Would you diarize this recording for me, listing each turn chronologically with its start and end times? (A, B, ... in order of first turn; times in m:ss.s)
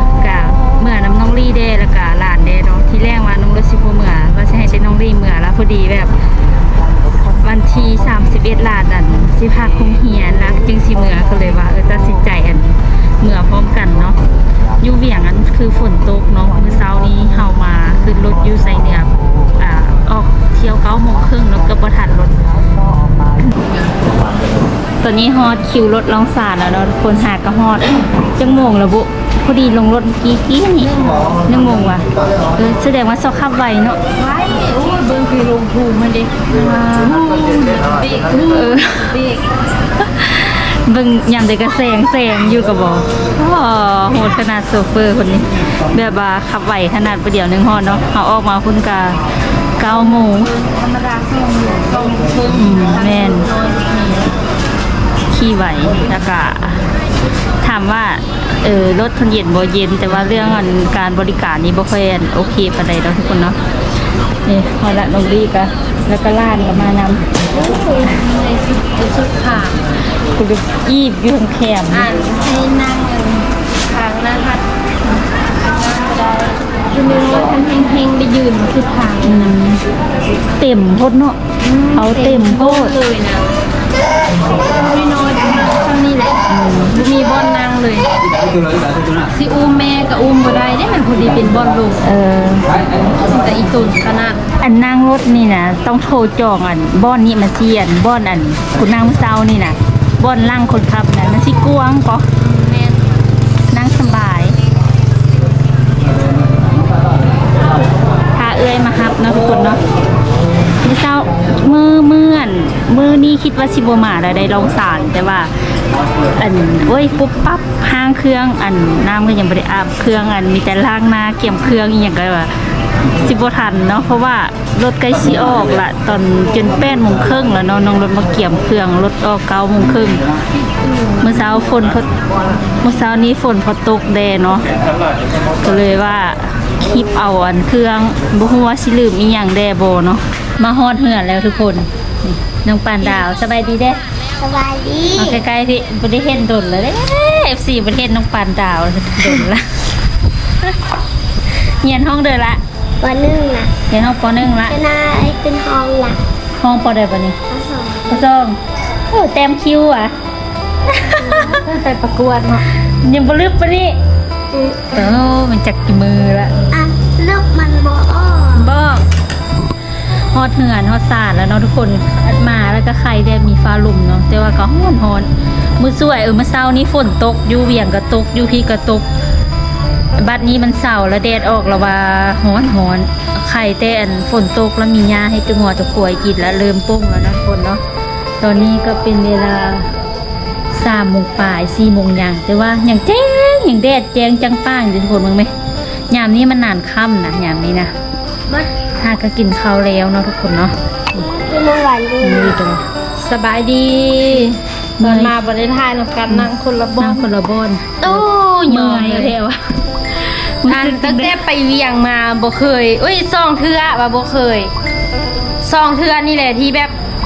0:00.2-0:06.1 A
0:07.3-0:14.2 A
0:14.8-0:22.4 A
0:23.4-0:23.7 A
0:25.0-0:34.0 A
0:30.9-0:31.4 B
0:34.1-0:39.5 B
0:36.5-0:37.2 A
0:38.4-0:39.2 A
0:40.0-0:49.2 A
0:49.8-0:50.5 A
0:50.5-0:54.3 B
0:52.5-0:53.5 A
0:55.3-0:56.9 A
0:57.6-1:03.6 A
1:04.4-1:07.4 A
1:07.5-1:09.8 B
1:10.4-1:12.1 A
1:11.9-1:19.6 B
1:19.2-1:19.8 A
1:20.6-1:21.4 A
1:21.6-1:23.5 B
1:21.9-1:22.9 A
1:24.6-1:26.4 B
1:26.5-1:27.0 A
1:26.9-1:28.1 B
1:29.2-1:32.0 B
1:32.0-1:32.7 A
1:33.1-1:34.4 B
1:34.6-1:42.2 A
1:42.4-1:43.1 B
1:43.7-1:44.6 A
1:48.3-1:49.8 A
1:50.8-1:55.5 A
1:56.3-2:02.5 A
2:03.1-2:10.2 A
2:10.7-2:11.3 B
2:11.2-2:12.1 A
2:12.8-2:14.7 A
2:15.6-2:24.0 A
2:24.4-2:25.4 C
2:25.2-2:29.8 A
2:31.6-2:32.6 A
2:33.0-2:33.7 C
2:33.9-2:34.8 A
2:34.6-2:36.2 C
2:36.6-2:37.4 A
2:37.5-2:38.2 C
2:38.1-2:38.6 A
2:39.1-2:40.1 A
2:41.0-2:41.6 A
2:41.2-2:42.6 B
2:43.0-2:44.0 A
2:44.5-2:45.0 C
2:44.9-2:46.6 A
2:46.7-2:48.7 C
2:48.5-2:49.0 A
2:50.3-2:59.1 A
3:00.2-3:07.8 A
3:08.4-3:09.9 A
3:10.7-3:15.5 A
3:16.1-3:17.9 A
3:19.0-3:20.7 A
3:21.2-3:22.6 C
3:22.2-3:22.8 A
3:23.2-3:27.3 B
3:25.0-3:25.3 A
3:26.3-3:31.4 A
3:28.0-3:29.3 B
3:30.6-3:34.7 B
3:35.6-3:36.9 B